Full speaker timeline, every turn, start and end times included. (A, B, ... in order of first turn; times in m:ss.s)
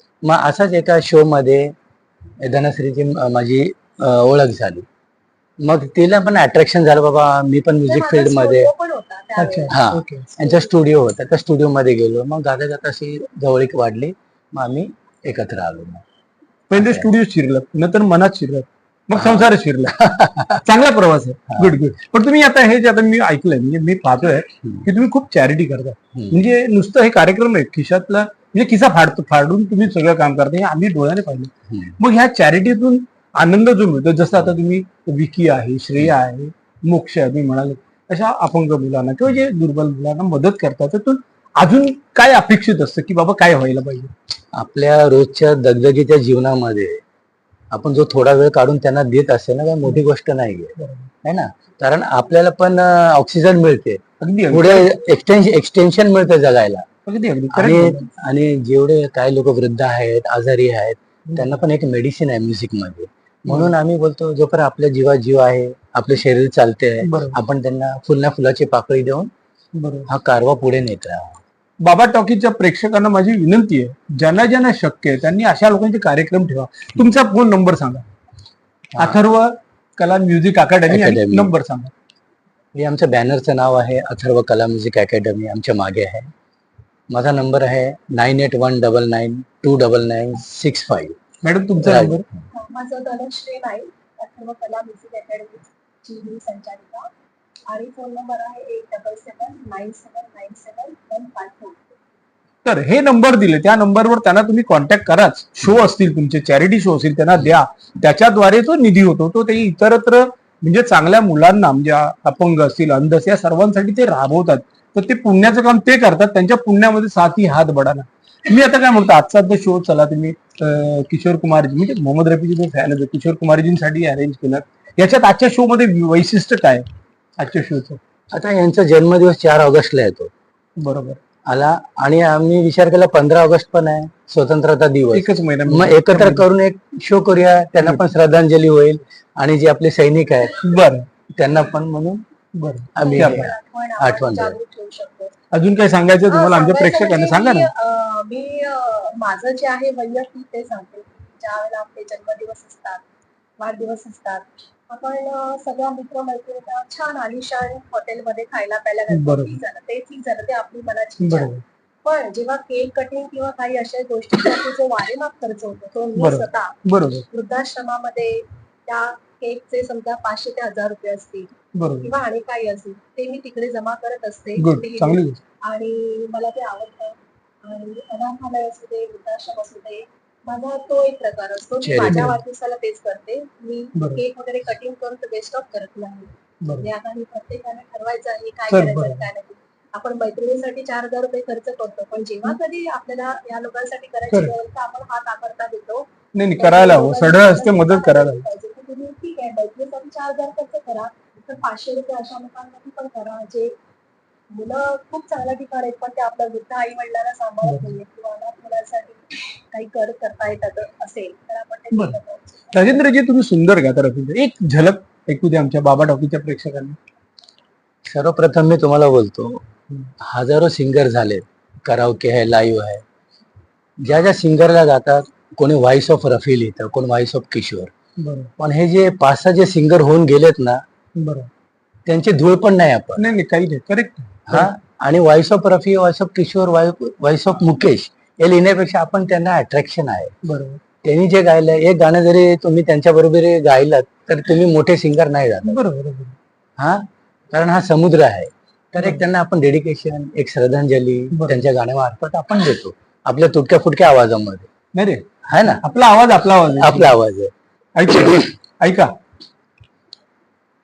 0:00.2-0:01.7 A
0:02.4-0:04.9 A
0:05.6-0:08.7 A
0:07.9-0:09.8 B
0:09.4-0:10.3 C
0:09.7-0:16.0 A
0:10.4-0:10.7 B
0:16.7-0:44.1 C
0:16.7-0:17.1 A
0:19.2-0:20.6 A
0:26.2-0:26.5 A
0:31.7-0:32.0 A
0:44.5-0:47.0 A
0:47.7-0:56.9 A
0:50.8-0:51.1 C
0:54.2-0:54.9 C
0:57.1-0:58.1 C
0:57.5-1:09.3 A
1:01.3-1:01.6 C
1:07.0-1:07.4 C
1:09.8-1:10.1 C
1:10.1-1:11.4 A
1:11.8-1:18.0 C
1:19.0-1:21.9 C
1:20.9-1:21.5 A
1:22.8-1:26.3 A
1:27.1-1:31.2 A
1:31.4-1:32.3 C
1:31.8-1:32.2 A
1:32.5-1:37.1 B
1:37.7-1:41.8 B
1:42.6-2:06.9 C
2:07.4-2:08.0 C
2:08.3-2:10.3 A
2:10.8-2:11.2 C
2:11.5-2:20.7 A
2:15.1-2:16.4 C
2:17.8-2:18.1 C
2:20.6-2:21.1 C
2:21.4-2:22.2 A
2:22.6-2:23.5 C
2:23.0-2:24.6 A
2:23.0-2:25.3 B
2:25.5-2:27.7 C
2:26.3-2:33.0 B
2:33.6-2:41.5 B
2:39.1-2:39.6 C
2:41.2-2:41.6 C
2:42.0-2:46.8 B
2:46.2-2:47.3 C
2:47.3-3:23.8 B
2:51.8-2:52.1 C
2:54.6-2:55.4 C
3:01.8-3:02.3 A
3:02.1-3:02.4 C
3:04.0-3:04.2 C
3:08.7-3:09.3 C
3:16.4-3:18.4 C
3:24.5-3:32.9 B
3:27.6-3:27.9 C
3:32.7-3:37.0 C
3:38.1-3:39.6 A
3:40.2-3:43.0 A
3:44.0-3:47.9 A
3:48.2-3:48.5 C
3:48.6-3:50.8 A
3:51.2-3:51.5 C
3:52.1-3:53.3 A
3:53.2-3:54.7 C
3:54.5-4:00.3 A
4:00.4-4:00.8 C
4:01.0-4:05.8 A
4:05.6-4:06.4 C
4:06.8-4:14.7 A
4:09.0-4:09.2 C
4:11.3-4:11.6 C
4:15.0-4:15.2 C
4:15.4-4:15.8 A
4:15.8-4:17.2 C
4:16.7-4:17.5 A
4:18.0-4:19.1 C